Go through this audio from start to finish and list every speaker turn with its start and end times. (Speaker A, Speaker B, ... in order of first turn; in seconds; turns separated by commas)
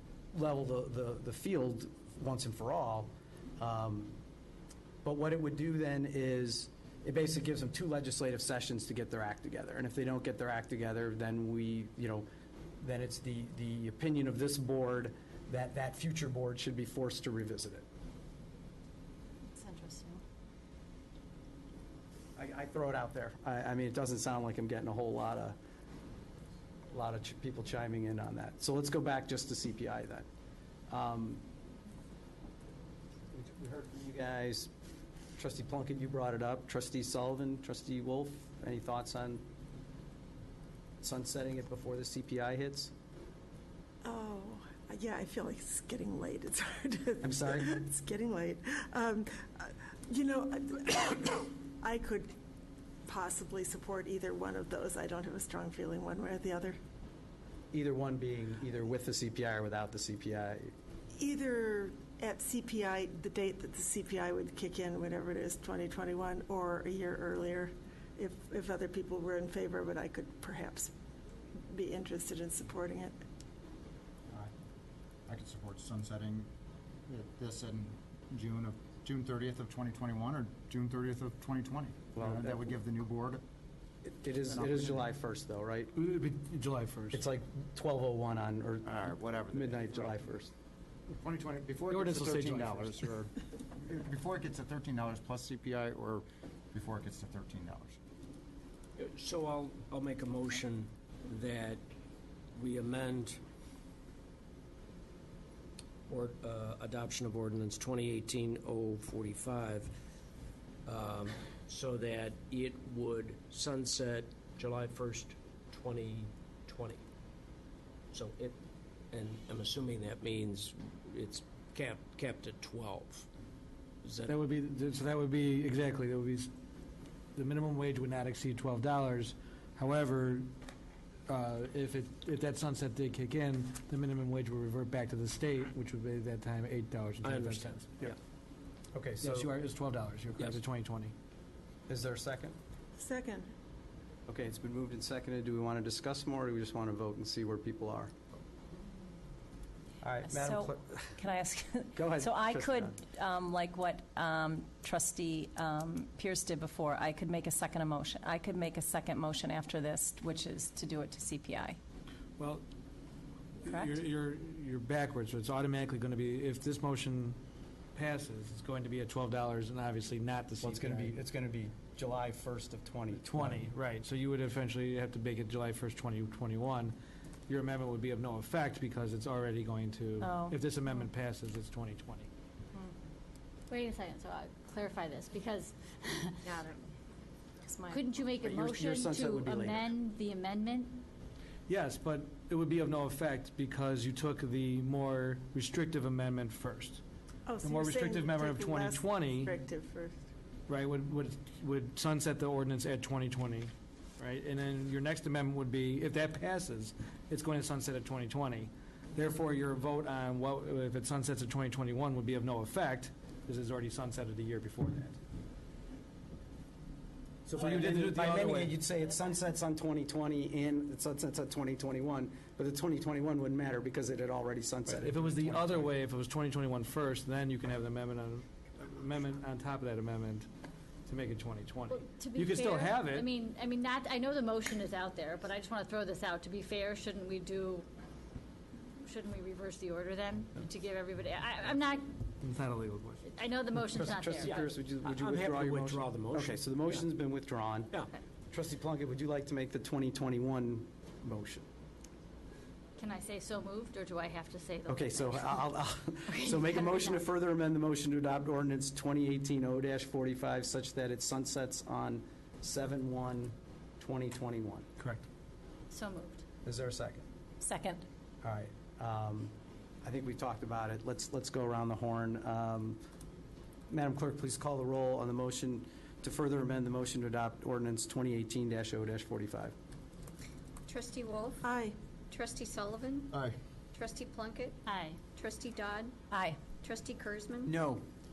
Speaker A: 0.3-4.1, Speaker A: 5.0-12.3, Speaker A: 12.8-17.8, Speaker B: 19.5-20.2, Speaker A: 22.4-25.6, Speaker A: 26.9-30.2, Speaker A: 30.9-31.4, Speaker A: 33.3-34.7, Speaker A: 35.4-39.4, Speaker A: 41.0-42.9, Speaker C: 44.0-52.4, Speaker A: 47.2-47.7, Speaker C: 53.0-56.8, Speaker A: 57.7-60.7, Speaker C: 61.1-70.9, Speaker C: 71.5-73.2, Speaker D: 75.3-76.5, Speaker D: 77.1-83.4, Speaker A: 82.2-82.6, Speaker A: 84.0-85.9, Speaker D: 84.5-85.0, Speaker E: 85.9-87.2, Speaker A: 87.1-90.5, Speaker D: 88.9-90.2, Speaker D: 91.1-98.0, Speaker E: 91.9-93.0, Speaker F: 99.0-101.8, Speaker F: 102.5-103.4, Speaker F: 106.1-109.9, Speaker F: 110.8-117.0, Speaker F: 118.1-118.6, Speaker F: 119.1-123.3, Speaker F: 124.0-124.3, Speaker E: 124.3-126.5, Speaker E: 127.3-130.5, Speaker E: 131.3-138.1, Speaker F: 137.2-137.8, Speaker A: 138.9-139.5, Speaker E: 139.2-141.1, Speaker A: 141.9-142.6, Speaker C: 142.9-143.5, Speaker A: 144.3-148.2, Speaker A: 150.0-151.1, Speaker G: 150.2-161.8, Speaker A: 151.9-153.0, Speaker E: 162.4-162.6, Speaker E: 163.6-167.4, Speaker G: 163.7-164.0, Speaker E: 167.9-171.2, Speaker A: 170.6-173.7, Speaker E: 173.2-176.9, Speaker E: 177.5-182.3, Speaker G: 180.2-180.6, Speaker B: 183.7-186.5, Speaker G: 186.4-186.8, Speaker G: 187.6-188.1, Speaker B: 187.9-191.0, Speaker A: 188.4-189.9, Speaker E: 191.7-197.0, Speaker C: 197.4-200.3, Speaker E: 197.6-199.6, Speaker E: 200.7-215.2, Speaker E: 217.5-218.8, Speaker A: 217.5-225.9, Speaker E: 224.9-230.5, Speaker E: 231.1-233.3, Speaker B: 231.9-237.9, Speaker B: 239.0-242.1, Speaker E: 242.4-243.2, Speaker B: 243.2-244.7, Speaker A: 243.8-247.9, Speaker F: 244.4-247.1, Speaker A: 248.5-251.6, Speaker B: 253.0-255.7, Speaker A: 254.9-264.9, Speaker B: 256.3-257.2, Speaker B: 265.9-266.4, Speaker A: 266.6-267.2, Speaker G: 267.6-268.0, Speaker A: 268.4-269.5, Speaker A: 270.0-273.0, Speaker A: 273.9-279.7, Speaker H: 280.9-281.6, Speaker C: 281.6-281.9, Speaker H: 282.3-283.3, Speaker H: 283.9-284.8, Speaker B: 284.9-285.2, Speaker H: 285.3-286.1, Speaker G: 286.3-286.6, Speaker H: 286.8-287.8, Speaker A: 287.6-288.0